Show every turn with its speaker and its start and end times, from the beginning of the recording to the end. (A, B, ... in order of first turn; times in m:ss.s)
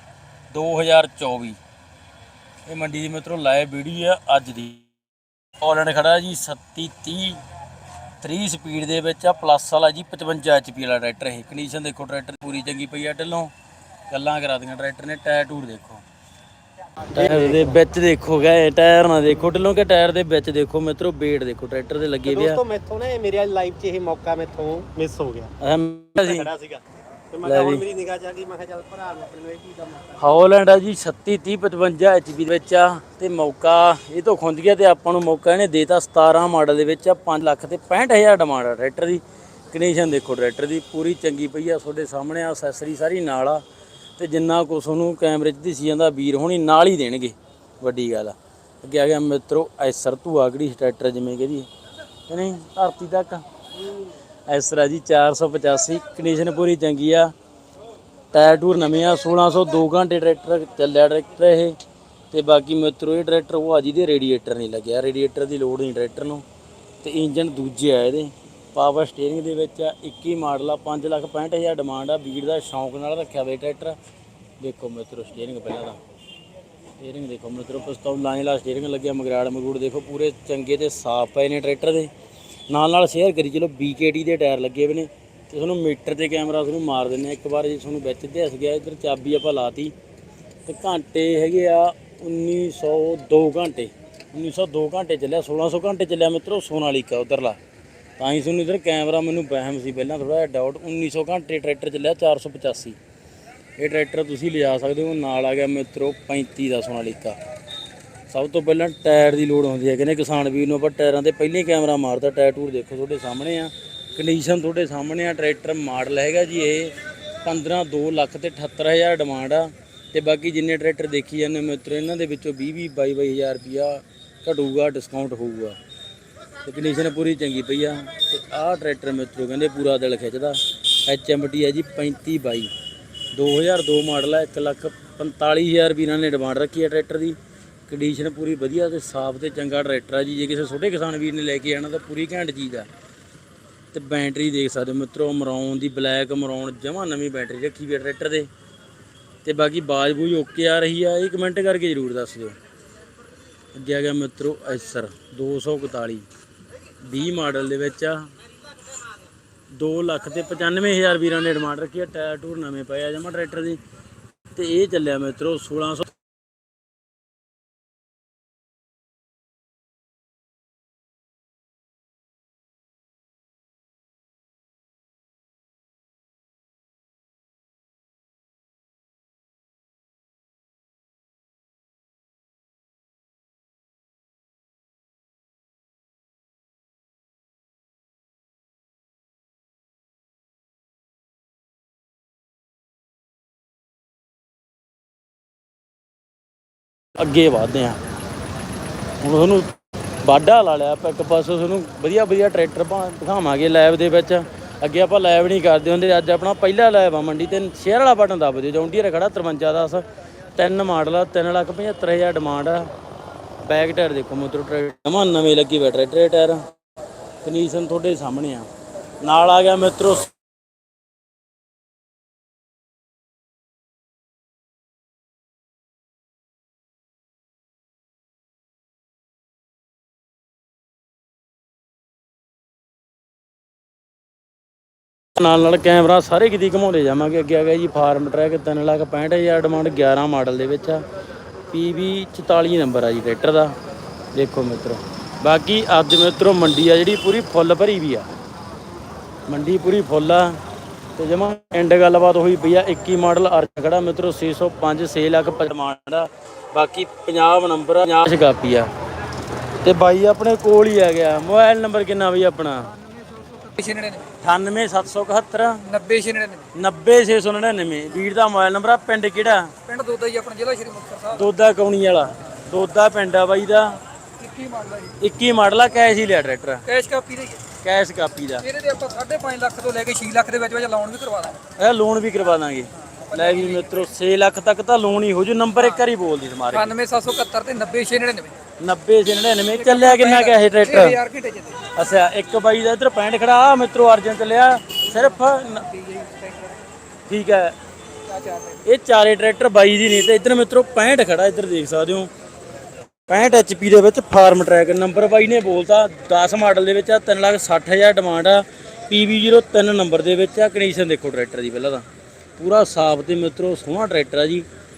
0:00.5-0:01.6 A
0:02.7-0:04.9 A
0:05.6-0:07.4 A
0:08.2-0:13.5 A
0:14.1-0:16.0 A
0:17.1-0:17.8 B
0:17.1-0:22.6 A
0:22.3-0:25.5 B
0:25.6-0:26.5 A
0:26.2-0:30.3 B
0:27.4-0:27.8 A
0:30.2-0:43.6 A
0:44.2-0:51.7 A
0:52.3-0:53.4 A
0:54.5-0:57.3 A
0:58.3-1:01.8 A
1:02.3-1:06.4 A
1:07.0-1:14.0 A
1:14.6-1:16.0 A
1:17.0-1:22.1 A
1:22.7-1:29.9 A
1:30.7-1:37.6 A
1:38.2-1:43.0 A
1:43.8-1:47.4 A
1:48.3-2:05.8 A
2:06.6-2:12.7 A
2:13.3-2:17.4 A
2:17.9-2:22.9 A
2:23.9-2:28.5 A
2:29.4-2:32.6 A
2:33.7-2:36.3 A
2:37.0-2:38.3 A
2:39.7-2:43.8 A
2:44.5-2:46.1 A
3:17.2-3:18.0 A
3:19.2-3:30.0 A
3:30.6-3:32.9 A
3:33.6-3:36.7 A
3:37.4-3:38.7 A
3:39.2-3:40.3 A
3:55.4-4:01.0 A
4:01.7-4:03.8 A
4:04.4-4:08.3 A
4:09.5-4:10.6 A
4:11.2-4:18.9 A
4:19.8-4:22.9 A
4:23.3-4:24.3 C
4:24.4-4:25.8 A
4:25.8-4:26.7 C
4:26.8-4:29.7 A
4:29.8-4:31.5 C
4:31.3-4:34.0 A
4:34.4-4:35.2 C
4:35.2-4:36.9 A
4:36.9-4:37.6 C
4:37.8-4:38.7 A
4:38.6-4:41.6 C
4:41.8-4:47.0 A
4:43.3-4:44.1 C
4:46.7-4:48.6 C
4:48.8-4:51.2 A
4:49.7-4:51.8 C
4:51.9-4:55.9 A
4:55.8-4:56.8 C
4:57.3-4:57.8 A
4:58.3-4:58.8 C
4:58.8-5:02.3 A
5:03.3-5:12.0 A
5:12.6-5:14.7 A